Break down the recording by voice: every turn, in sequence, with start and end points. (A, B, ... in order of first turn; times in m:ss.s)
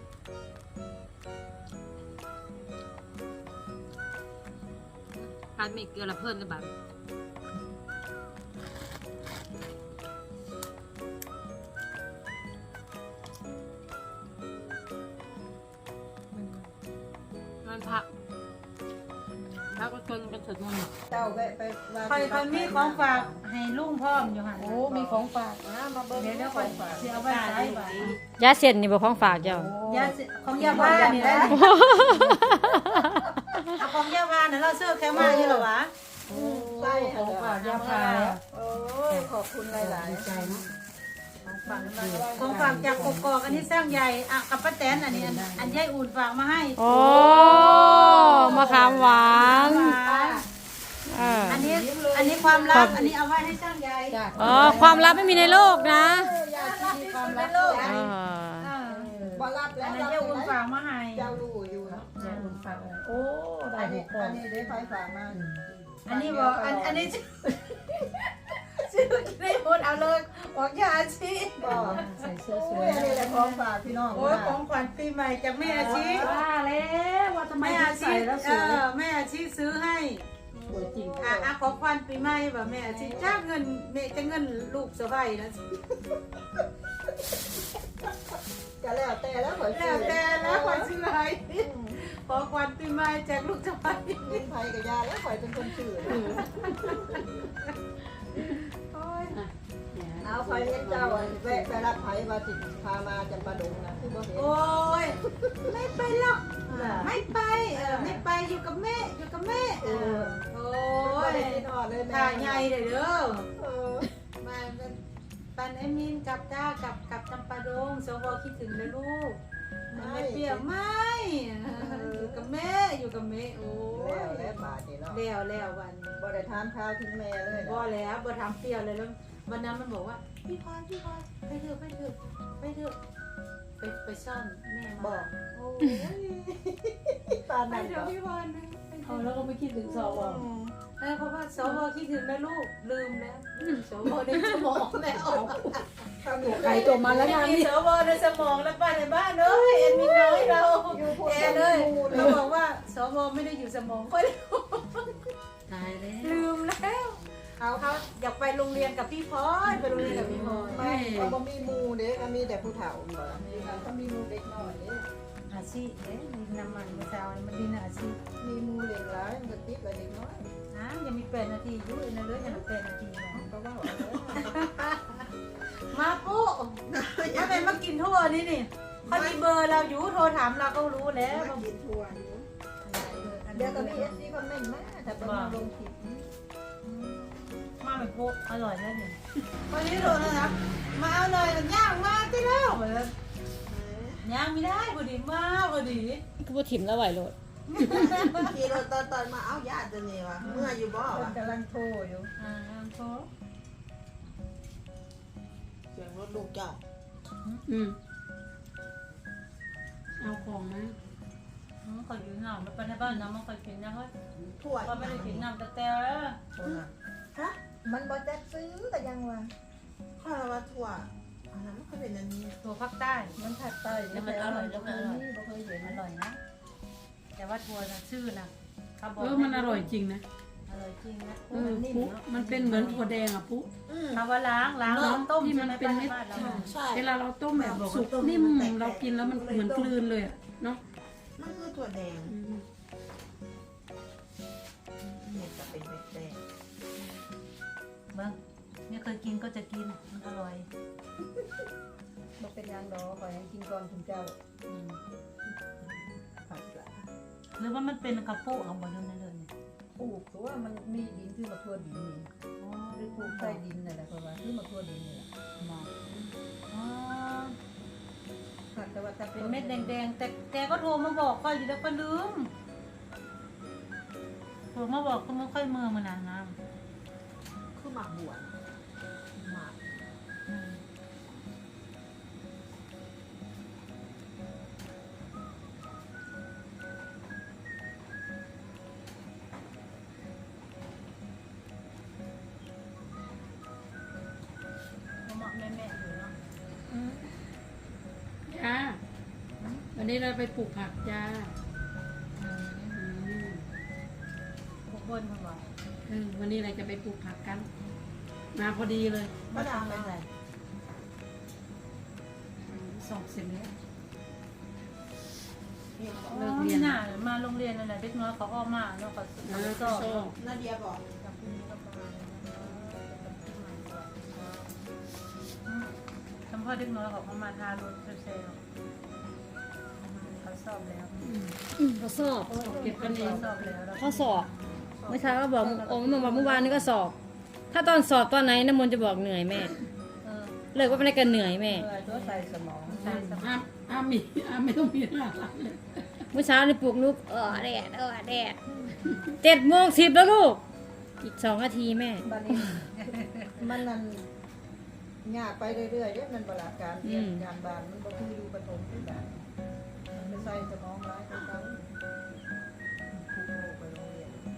0:05.1-0:06.7 A
0:16.3-0:16.7 B
0:17.6-0:18.1 A
0:19.4-0:19.8 B
0:19.7-0:20.9 A
0:21.1-0:23.4 C
0:22.0-0:25.2 B
0:24.8-0:25.2 D
0:24.8-0:25.6 A
0:25.6-0:27.2 C
0:26.1-0:28.1 B
0:27.3-0:29.7 A
0:29.4-0:32.4 D
0:29.8-0:31.6 B
0:30.6-0:31.6 C
0:30.6-0:33.7 A
0:33.8-0:35.9 B
0:35.1-0:35.6 C
0:35.1-0:35.4 E
0:36.3-0:37.7 C
0:36.3-0:38.4 D
0:37.6-0:38.4 B
0:38.5-0:40.3 C
0:39.8-0:40.6 D
0:41.4-0:50.4 B
0:41.6-0:43.9 D
0:42.1-0:43.2 C
0:44.9-0:45.8 D
0:46.8-0:50.0 A
0:47.1-0:47.7 C
0:48.4-0:48.9 D
0:49.4-0:49.9 D
0:49.7-0:50.4 C
0:51.1-0:51.7 A
0:51.5-0:55.5 B
0:51.6-0:53.1 C
0:52.7-0:53.0 A
0:54.1-0:55.2 D
0:54.3-0:56.3 A
0:54.4-0:58.1 C
0:56.4-0:59.1 B
0:57.7-0:58.7 A
0:58.9-0:59.4 D
0:59.2-1:00.6 C
0:59.8-1:01.3 B
1:01.1-1:02.1 C
1:01.8-1:04.4 D
1:02.2-1:02.6 B
1:03.7-1:07.2 C
1:04.6-1:05.0 B
1:05.3-1:05.6 D
1:06.0-1:12.3 B
1:11.6-1:14.6 C
1:11.6-1:13.6 D
1:14.1-1:16.3 B
1:14.1-1:14.6 D
1:15.6-1:18.8 D
1:15.9-1:16.3 C
1:17.6-1:20.3 B
1:20.6-1:21.3 D
1:20.6-1:21.5 C
1:21.2-1:25.8 B
1:22.8-1:23.4 C
1:28.8-1:30.9 C
1:29.7-1:34.4 B
1:31.6-1:32.0 C
1:34.2-1:36.5 C
1:36.1-1:37.2 B
1:36.1-1:37.1 D
1:38.9-1:39.3 C
1:39.3-1:42.0 D
1:40.2-1:45.8 C
1:44.3-1:53.5 B
1:46.7-1:47.1 C
1:47.7-1:48.2 C
1:49.8-1:50.4 C
1:51.0-1:52.7 C
1:53.6-1:54.1 C
1:54.4-1:55.0 B
1:55.5-2:06.2 B
1:59.9-2:00.7 C
2:01.7-2:02.5 C
2:03.9-2:05.2 C
2:06.2-2:07.9 C
2:07.6-2:13.0 B
2:13.8-2:16.3 B
2:15.0-2:15.3 C
2:16.2-2:18.2 C
2:17.7-2:20.1 B
2:19.0-2:20.4 D
2:19.9-2:20.7 C
2:21.0-2:25.6 B
2:25.2-2:25.8 D
2:26.2-2:27.2 C
2:26.4-2:27.7 D
2:26.5-2:35.3 B
2:29.6-2:30.7 E
2:30.9-2:32.5 C
2:35.7-2:36.4 D
2:36.2-2:40.9 B
2:37.6-2:37.8 C
2:39.7-2:41.4 D
2:40.0-2:45.1 C
2:43.4-2:43.9 B
2:45.5-2:48.2 B
2:48.4-2:50.5 C
2:50.7-2:53.5 B
2:53.3-2:54.5 C
2:54.3-2:55.2 B
2:55.8-3:01.6 B
2:56.9-2:57.8 E
2:59.0-2:59.4 E
3:01.2-3:02.5 E
3:02.8-3:04.2 B
3:03.5-3:06.3 C
3:05.1-3:05.6 B
3:06.8-3:09.2 B
3:09.7-3:13.1 B
3:13.6-3:14.2 E
3:14.2-3:16.2 B
3:16.4-3:17.3 A
3:17.7-3:18.8 B
3:17.7-3:18.2 D
3:17.8-3:21.3 E
3:20.4-3:20.8 B
3:21.0-3:22.3 C
3:22.4-3:23.3 B
3:25.9-3:26.8 E
3:27.7-3:28.0 D
3:30.2-3:30.9 D
3:31.8-3:34.1 B
3:34.4-3:35.4 E
3:34.8-3:36.4 B
3:36.6-3:37.5 E
3:36.6-3:36.9 C
3:37.6-3:39.5 C
3:40.2-3:42.6 E
3:42.6-3:43.4 B
3:43.4-3:46.0 C
3:44.1-3:45.2 A
3:45.8-3:46.4 B
3:47.4-3:49.9 B
3:49.2-3:50.2 D
3:50.7-3:53.1 B
3:51.5-3:53.7 D
3:51.6-3:52.1 C
3:53.9-3:54.2 E
3:54.1-3:56.6 B
3:54.8-3:55.1 E
3:54.9-4:00.8 D
3:56.3-3:59.1 E
3:59.3-3:59.9 C
4:01.4-4:02.4 E
4:02.2-4:02.6 D
4:05.0-4:06.4 E
4:08.9-4:10.6 B
4:12.4-4:14.4 C
4:14.7-4:15.0 B
4:16.5-4:17.0 C
4:17.6-4:19.5 B
4:20.0-4:22.3 C
4:22.6-4:23.6 B
4:23.0-4:25.3 C
4:25.6-4:27.6 B
4:28.7-4:30.0 C
4:29.4-4:32.5 B
4:34.7-4:36.6 B
4:37.7-4:38.6 E
4:39.4-4:39.8 E
4:40.5-4:40.8 B
4:55.2-4:56.3 B
4:58.5-4:59.0 D
4:59.6-4:59.8 B
4:59.9-5:01.5 D
5:02.4-5:03.0 B
5:02.9-5:03.6 D
5:04.9-5:05.6 B
5:06.1-5:07.7 D
5:08.5-5:09.4 D
5:09.5-5:10.2 E
5:09.5-5:10.1 B
5:12.7-5:13.0 D
5:12.9-5:13.7 B
5:15.9-5:16.5 E
5:16.2-5:20.3 B
5:16.5-5:17.0 D
5:19.4-5:20.4 D
5:20.4-5:21.0 E
5:21.2-5:24.7 B
5:26.5-5:28.6 B
5:30.0-5:31.2 B
5:31.2-5:31.6 D
5:31.8-5:32.6 A
5:32.5-5:33.5 D
5:32.5-5:36.9 B
5:33.9-5:34.5 A
5:35.0-5:35.4 C
5:35.1-5:37.2 A
5:37.7-5:39.7 A
5:40.2-5:41.0 B
5:40.7-5:41.9 A
5:41.5-5:43.2 C
5:41.8-5:43.6 B
5:43.0-5:46.0 D
5:46.3-5:48.6 A
5:49.0-5:49.3 D
5:49.4-5:50.6 A
5:51.2-5:52.3 A
5:52.2-5:54.2 C
5:52.8-5:53.6 B
5:55.2-5:59.4 C
6:00.1-6:01.9 C
6:00.1-6:00.6 B
6:03.3-6:04.2 C
6:03.4-6:04.3 E